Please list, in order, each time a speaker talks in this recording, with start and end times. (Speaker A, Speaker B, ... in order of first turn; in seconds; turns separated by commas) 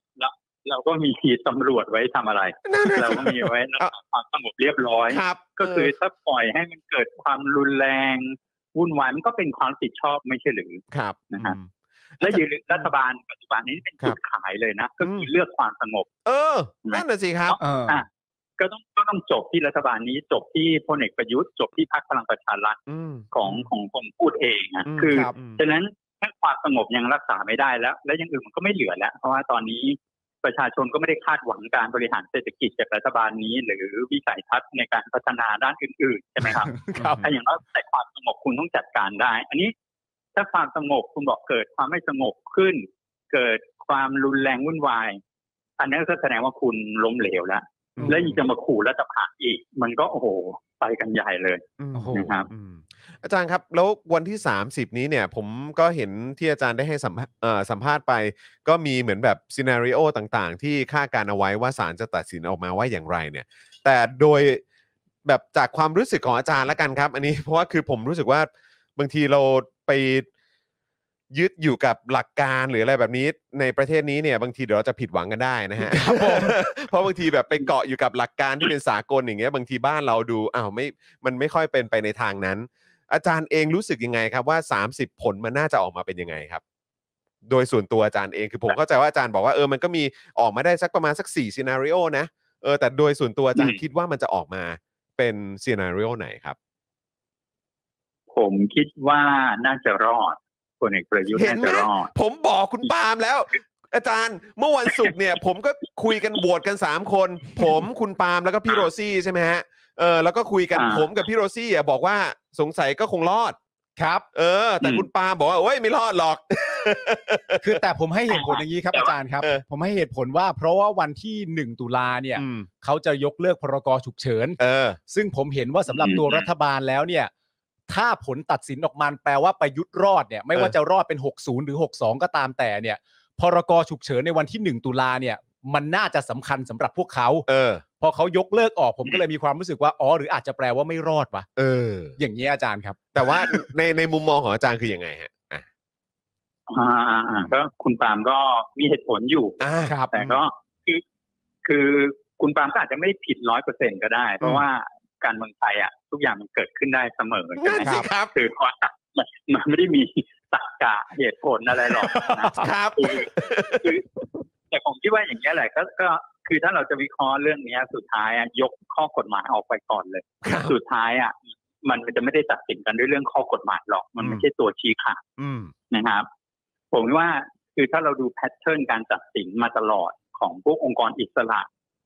Speaker A: 0.2-11.6, Speaker B: 2.7-3.9, Speaker B: 5.1-5.9, Speaker B: 10.9-12.4, Speaker A: 12.2-16.1, Speaker B: 15.0-15.3, Speaker B: 16.2-17.6, Speaker A: 16.9-18.1, Speaker C: 17.6-18.0, Speaker A: 18.6-22.8, Speaker B: 22.9-23.7, Speaker A: 23.3-39.7, Speaker B: 24.9-25.6, Speaker C: 25.0-25.3, Speaker C: 36.4-37.3, Speaker A: 40.4-45.2, Speaker A: 45.8-52.5, Speaker B: 48.0-48.4, Speaker B: 51.8-64.6, Speaker C: 51.9-52.3, Speaker B: 65.2-70.3, Speaker B: 71.3-86.6, Speaker C: 75.8-76.6, Speaker B: 87.5-96.6, Speaker A: 93.5-93.8, Speaker A: 98.3-102.1, Speaker B: 101.3-113.6, Speaker A: 104.9-105.1, Speaker A: 110.8-111.1, Speaker C: 114.0-114.2, Speaker B: 114.3-117.8, Speaker A: 114.8-115.1, Speaker C: 117.6-124.6, Speaker A: 118.3-119.1, Speaker B: 122.4-122.7, Speaker B: 124.6-125.0, Speaker C: 125.1-127.3, Speaker A: 125.9-126.5, Speaker C: 127.9-137.5, Speaker B: 137.5-137.8, Speaker C: 138.0-141.5, Speaker B: 141.6-142.2, Speaker C: 142.2-143.6, Speaker B: 143.1-145.7, Speaker A: 146.7-149.6, Speaker B: 149.6-150.4, Speaker C: 149.9-150.1, Speaker A: 150.1-151.0, Speaker A: 151.6-164.2, Speaker B: 157.6-158.3, Speaker C: 157.8-158.1, Speaker C: 162.0-162.7, Speaker B: 162.5-163.9, Speaker A: 164.7-175.2, Speaker B: 170.4-170.8, Speaker B: 175.4-175.7, Speaker A: 175.9-176.3, Speaker A: 176.9-181.7